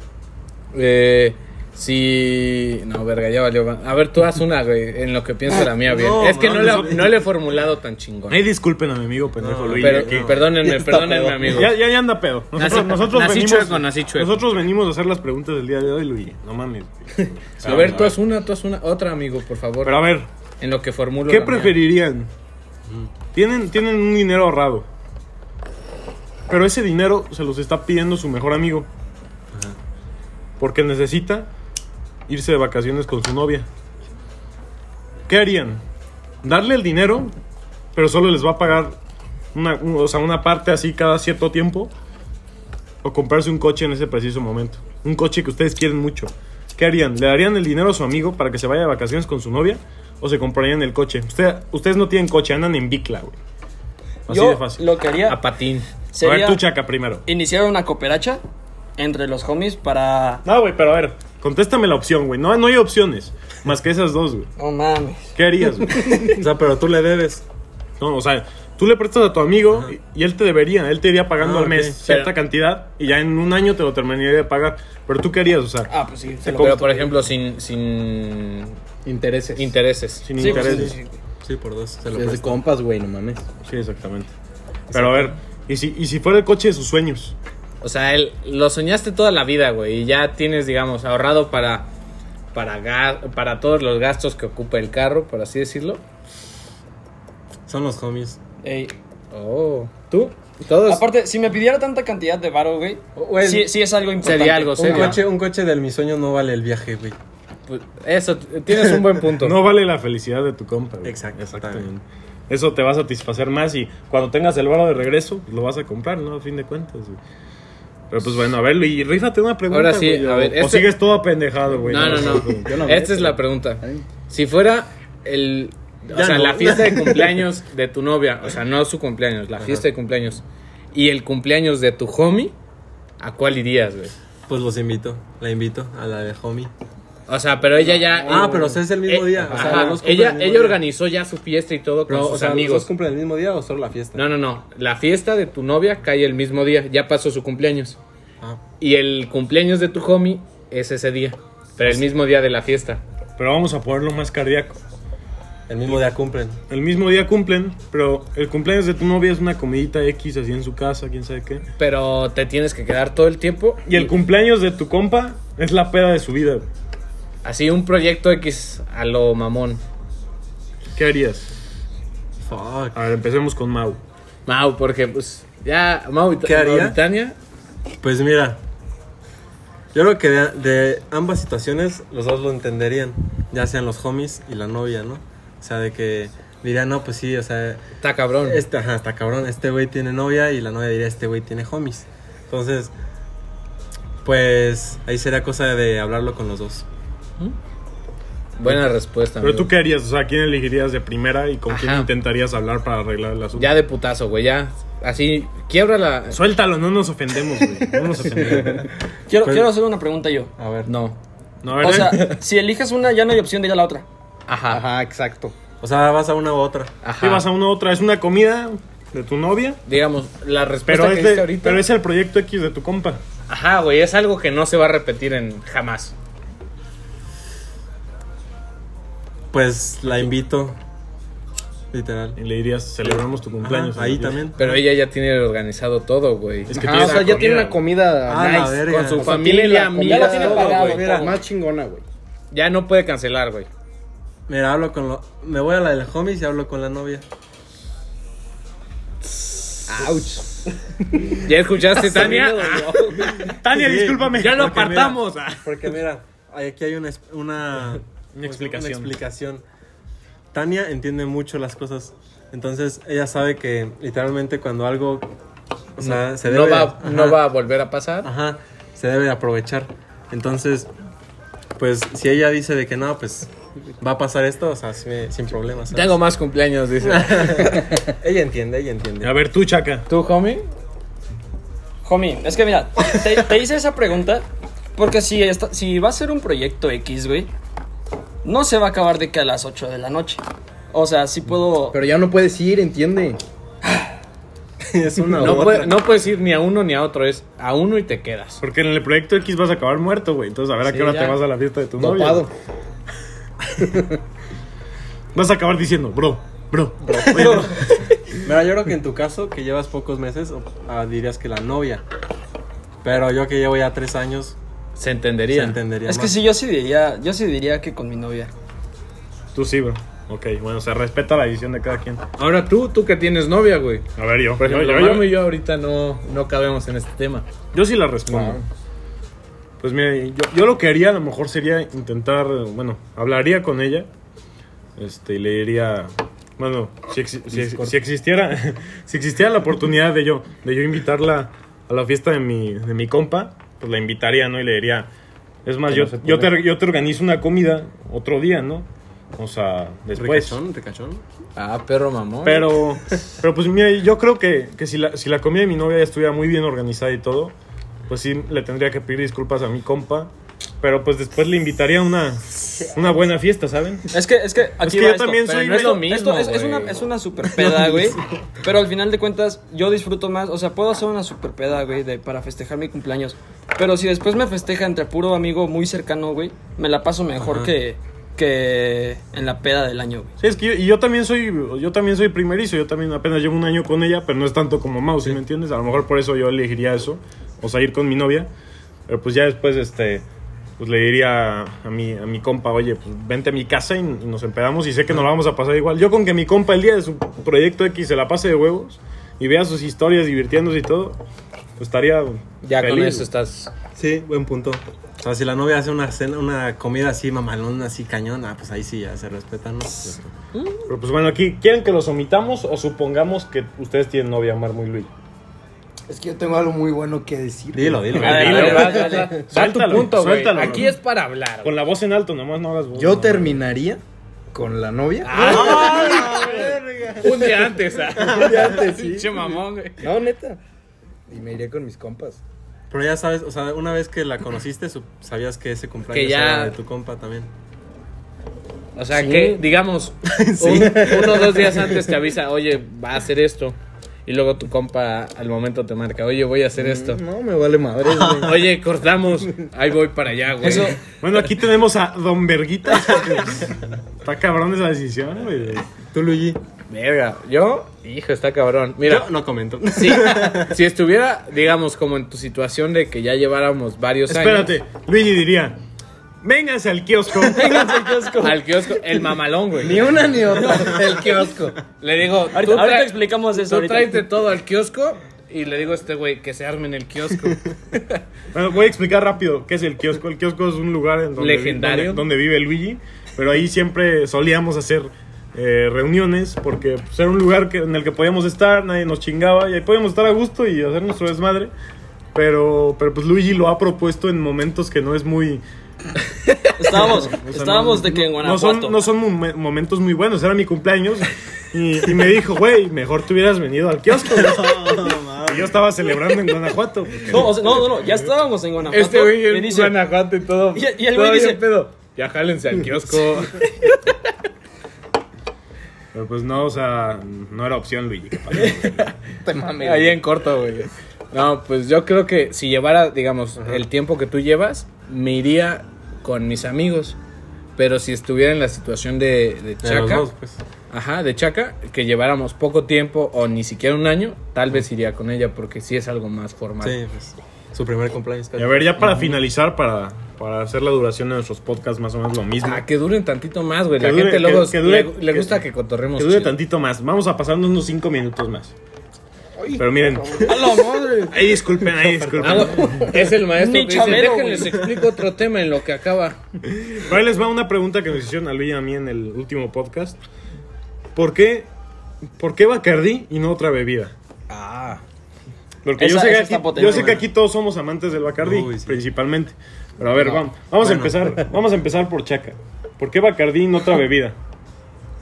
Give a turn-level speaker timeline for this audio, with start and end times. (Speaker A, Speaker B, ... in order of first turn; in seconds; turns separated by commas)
Speaker A: 0.7-8.4, Speaker B: 5.5-7.2, Speaker C: 6.5-7.0, Speaker C: 8.3-10.4, Speaker B: 9.4-11.5, Speaker A: 9.8-11.7, Speaker C: 11.5-18.2, Speaker A: 12.6-14.4, Speaker B: 17.6-18.1, Speaker A: 17.6-20.0, Speaker C: 19.8-20.3, Speaker A: 20.6-21.8, Speaker C: 21.3-22.3, Speaker B: 22.9-23.1, Speaker C: 23.3-24.9, Speaker C: 26.5-28.9, Speaker B: 29.5-29.8, Speaker C: 30.6-31.5, Speaker C: 32.3-33.7, Speaker C: 35.3-35.8, Speaker C: 36.4-37.3, Speaker C: 37.9-39.0, Speaker C: 39.5-41.9, Speaker C: 43.0-53.4, Speaker C: 54.3-54.8, Speaker D: 54.3-55.4, Speaker A: 55.3-55.9, Speaker D: 56.1-56.6, Speaker C: 56.2-57.2, Speaker D: 57.3-58.4, Speaker D: 59.0-60.4, Speaker C: 60.4-64.5, Speaker D: 64.6-66.4, Speaker C: 65.4-66.4, Speaker B: 66.3-67.4, Speaker C: 68.0-75.9, Speaker B: 71.4-72.0, Speaker A: 72.1-72.3, Speaker D: 75.9-77.1, Speaker C: 76.4-77.1, Speaker A: 76.6-78.8, Speaker E: 79.0-79.8, Speaker A: 79.5-80.3, Speaker C: 80.2-81.0, Speaker D: 80.4-81.2, Speaker B: 80.4-82.6, Speaker E: 82.1-83.5, Speaker C: 83.6-84.3, Speaker B: 84.9-85.3, Speaker C: 84.9-87.3, Speaker A: 87.8-91.9, Speaker A: 92.5-96.0, Speaker B: 97.7-98.4, Speaker D: 98.6-98.9, Speaker A: 99.3-101.0, Speaker D: 100.8-105.2, Speaker B: 103.2-103.7, Speaker A: 104.2-105.2, Speaker B: 104.8-107.2, Speaker A: 107.7-109.6, Speaker C: 109.4-117.2, Speaker B: 111.0-111.9, Speaker C: 118.1-122.8, Speaker A: 119.7-120.9, Speaker A: 121.8-132.6, Speaker E: 121.9-124.0, Speaker B: 126.1-127.5, Speaker B: 129.6-129.8, Speaker A: 133.2-134.1, Speaker B: 134.5-136.7, Speaker A: 137.3-142.9, Speaker E: 137.9-138.8, Speaker B: 138.2-140.8, Speaker E: 139.5-139.9, Speaker B: 142.1-144.2, Speaker A: 144.1-148.0, Speaker A: 148.8-153.0, Speaker C: 153.4-154.8, Speaker B: 155.7-156.6, Speaker C: 156.7-161.6, Speaker A: 161.8-164.1, Speaker C: 163.9-166.6, Speaker A: 167.4-169.8, Speaker C: 170.9-171.5, Speaker B: 172.4-173.1, Speaker C: 172.9-174.0, Speaker A: 174.5-177.4, Speaker B: 176.4-177.0, Speaker B: 178.0-178.6, Speaker B: 179.9-187.8, Speaker A: 188.0-188.6, Speaker B: 188.4-192.9, Speaker B: 194.2-196.8, Speaker A: 198.6-199.7, Speaker C: 199.4-203.7, Speaker A: 201.7-202.1, Speaker A: 203.6-206.4, Speaker C: 206.3-208.9, Speaker E: 208.4-208.8, Speaker D: 209.3-210.5, Speaker B: 210.6-210.9, Speaker A: 210.9-211.2, Speaker C: 211.6-212.3, Speaker D: 211.8-214.1, Speaker A: 214.5-214.8, Speaker E: 214.7-215.6, Speaker B: 215.8-216.9, Speaker A: 217.0-217.5, Speaker C: 217.2-219.8, Speaker A: 219.9-221.8, Speaker C: 220.9-223.2, Speaker A: 223.5-226.1, Speaker B: 229.5-230.8, Speaker B: 231.9-232.4, Speaker C: 232.4-234.5, Speaker B: 233.0-234.8, Speaker A: 234.6-237.5, Speaker C: 236.7-237.8, Speaker E: 236.7-242.0, Speaker B: 238.3-239.4, Speaker A: 238.8-241.1, Speaker D: 240.0-241.4, Speaker B: 240.3-241.4, Speaker A: 242.5-243.7, Speaker B: 244.5-247.2, Speaker A: 249.3-249.7, Speaker E: 249.9-250.6, Speaker A: 251.4-253.3, Speaker D: 251.9-253.5, Speaker C: 253.5-255.2, Speaker B: 253.7-255.1, Speaker A: 254.3-255.7, Speaker B: 255.6-259.6, Speaker C: 258.3-259.1, Speaker B: 260.5-265.3, Speaker B: 266.0-267.4, Speaker A: 266.0-268.3, Speaker B: 268.2-270.9, Speaker B: 271.8-276.1, Speaker A: 275.9-277.8, Speaker B: 277.0-279.3, Speaker C: 279.2-280.1, Speaker A: 280.1-280.6, Speaker D: 282.0-284.5, Speaker D: 285.0-287.5, Speaker D: 288.4-292.0, Speaker E: 291.9-293.4, Speaker B: 294.9-296.0, Speaker A: 295.4-298.6, Speaker C: 298.6-302.5, Speaker A: 300.9-301.3, Speaker E: 302.0-302.5, Speaker C: 305.4-308.1, Speaker D: 307.1-307.8, Speaker B: 307.1-307.8, Speaker B: 308.4-312.0, Speaker B: 313.0-314.6, Speaker A: 315.0-315.8, Speaker B: 315.5-316.4, Speaker D: 316.1-318.5, Speaker C: 319.5-322.2, Speaker A: 322.4-327.5, Speaker C: 324.2-325.4, Speaker C: 327.7-328.6, Speaker A: 328.3-328.6, Speaker C: 329.8-334.1, Speaker C: 335.0-345.1, Speaker E: 337.5-337.9, Speaker C: 345.6-350.6, Speaker E: 345.9-346.5, Speaker B: 350.1-351.2, Speaker A: 351.6-352.7, Speaker C: 352.4-357.6, Speaker C: 358.1-360.3, Speaker C: 360.8-364.2, Speaker D: 364.1-380.3, Speaker C: 364.8-366.1, Speaker A: 365.4-367.1, Speaker B: 367.6-367.9, Speaker B: 377.4-377.7, Speaker C: 380.4-388.5, Speaker C: 389.1-390.2, Speaker C: 390.8-401.2, Speaker C: 401.8-403.3, Speaker A: 402.6-403.7, Speaker B: 403.9-410.3, Speaker C: 410.9-415.1, Speaker E: 416.1-418.6, Speaker B: 417.7-419.4, Speaker C: 418.2-421.0, Speaker A: 418.2-421.7, Speaker D: 418.2-419.4, Speaker C: 421.6-423.6, Speaker E: 422.9-426.8, Speaker A: 425.2-430.1, Speaker B: 425.4-427.6, Speaker B: 428.1-428.7, Speaker E: 428.2-430.6, Speaker E: 431.3-432.4, Speaker B: 432.9-437.5, Speaker A: 436.1-436.8, Speaker A: 439.0-447.2, Speaker E: 439.1-439.6, Speaker B: 440.2-442.0, Speaker E: 440.7-441.4, Speaker E: 446.8-448.7, Speaker A: 448.2-451.0, Speaker D: 450.6-451.0, Speaker C: 451.1-455.9, Speaker B: 456.1-456.6, Speaker A: 456.9-459.3, Speaker B: 459.0-460.8, Speaker A: 459.9-464.7, Speaker C: 464.3-465.8, Speaker C: 466.4-468.1, Speaker D: 467.4-469.2, Speaker A: 468.4-470.1, Speaker E: 469.8-471.8, Speaker B: 470.0-470.4, Speaker A: 472.0-478.2, Speaker D: 472.5-474.3, Speaker C: 478.5-491.7, Speaker A: 481.4-482.2, Speaker C: 492.3-495.6, Speaker D: 496.8-499.0, Speaker C: 496.9-507.9, Speaker B: 504.3-505.8, Speaker D: 507.3-510.0, Speaker A: 508.9-514.0, Speaker D: 510.7-511.7, Speaker C: 516.1-519.1, Speaker A: 518.6-519.1, Speaker E: 519.4-520.2, Speaker A: 519.8-527.2, Speaker B: 523.6-523.8, Speaker A: 527.8-530.3, Speaker B: 529.8-530.6, Speaker A: 530.9-537.0, Speaker B: 536.8-539.2, Speaker C: 538.6-542.9, Speaker A: 542.6-546.5, Speaker C: 544.0-545.6, Speaker C: 546.1-548.7, Speaker E: 549.6-551.3, Speaker C: 549.8-553.2, Speaker D: 550.4-551.5, Speaker E: 552.2-552.7, Speaker A: 552.4-556.4, Speaker D: 553.4-555.0, Speaker C: 556.8-560.2, Speaker C: 561.1-561.7, Speaker C: 562.4-564.1, Speaker A: 564.5-565.0, Speaker C: 565.9-574.4, Speaker D: 566.0-567.2, Speaker B: 566.8-567.3, Speaker B: 568.4-569.0, Speaker B: 570.8-571.2